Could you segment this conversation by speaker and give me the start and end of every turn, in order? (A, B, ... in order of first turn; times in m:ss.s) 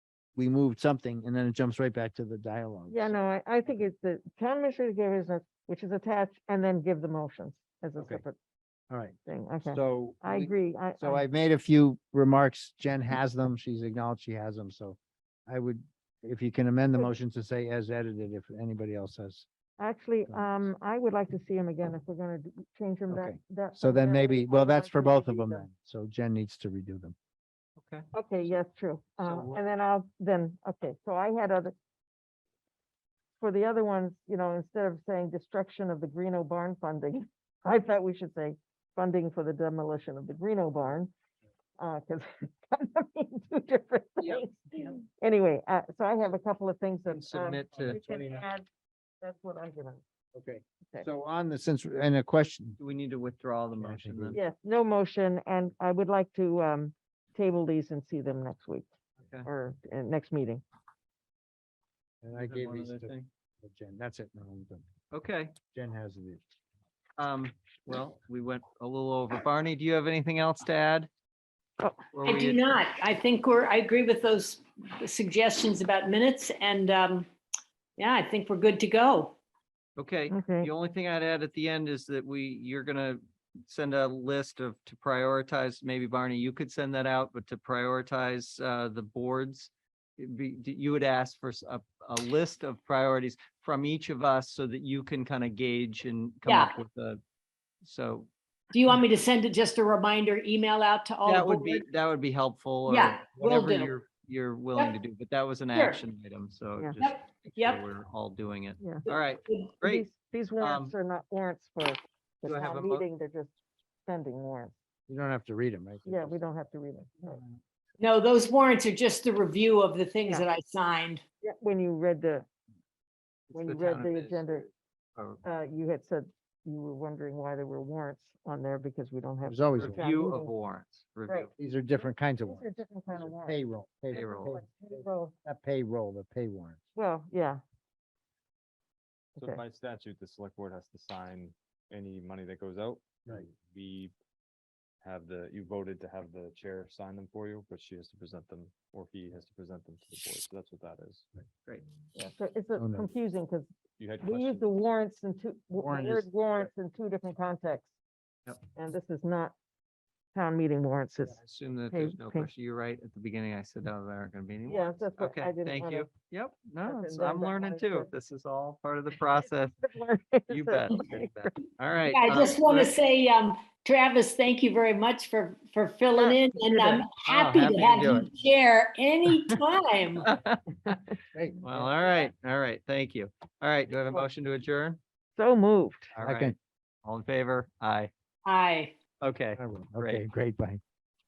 0:00.4-0:03.2 A
0:02.9-0:08.4 B
0:08.0-0:08.2 A
0:08.9-0:09.2 A
0:09.3-0:11.2 B
0:09.7-0:19.5 A
0:19.8-0:25.7 B
0:20.3-0:20.5 A
0:23.1-0:27.2 A
0:27.8-0:28.1 C
0:28.1-0:31.7 B
0:29.2-0:29.6 C
0:33.4-0:41.1 B
0:41.8-0:48.7 B
0:47.2-0:48.0 C
0:47.8-0:48.4 A
0:49.2-0:50.0 B
0:50.4-0:52.8 A
0:52.8-0:54.4 C
0:53.8-0:54.4 A
0:54.3-0:58.9 B
0:59.5-1:00.6 B
1:02.2-1:04.9 A
1:02.4-1:03.3 C
1:05.1-1:05.5 C
1:05.7-1:06.4 A
1:07.2-1:11.1 C
1:12.1-1:12.7 C
1:12.2-1:17.3 D
1:18.0-1:19.4 D
1:20.0-1:37.2 C
1:20.3-1:20.7 B
1:36.5-1:36.8 D
1:37.8-1:38.3 C
1:38.7-1:41.9 D
1:41.2-1:50.0 C
1:42.9-1:43.9 D
1:45.7-1:46.0 D
1:47.0-1:47.8 D
1:48.8-1:49.1 B
1:49.1-1:49.7 D
1:49.8-1:53.5 B
1:50.6-1:50.9 C
1:52.4-1:53.0 C
1:54.1-1:54.7 B
1:55.1-1:56.4 A
1:56.1-1:57.4 B
1:58.0-2:01.2 D
2:01.4-2:02.5 B
2:03.5-2:04.6 C
2:03.5-2:04.7 B
2:05.2-2:05.4 C
2:05.4-2:10.5 B
2:09.5-2:10.0 A
2:09.8-2:11.5 C
2:11.6-2:16.8 A
2:12.4-2:13.6 B
2:14.1-2:15.3 B
2:14.1-2:14.6 C
2:17.0-2:17.6 B
2:19.4-2:24.1 E
2:25.0-2:31.3 E
2:32.2-2:33.7 B
2:32.8-2:33.1 A
2:34.0-2:34.7 E
2:34.2-2:37.9 B
2:35.8-2:36.3 A
2:38.7-2:39.6 B
2:40.3-2:42.5 B
2:41.4-2:49.8 C
2:44.7-2:46.1 B
2:46.9-2:48.1 B
2:49.8-2:51.6 B
2:50.5-2:52.9 C
2:52.1-3:00.3 D
2:56.2-2:57.0 B
2:57.2-2:58.3 C
3:00.2-3:01.1 C
3:01.3-3:01.9 A
3:01.6-3:05.0 C
3:05.4-3:06.1 B
3:06.1-3:08.1 C
3:06.2-3:06.6 A
3:08.4-3:09.0 D
3:09.2-3:10.2 C
3:09.6-3:10.8 A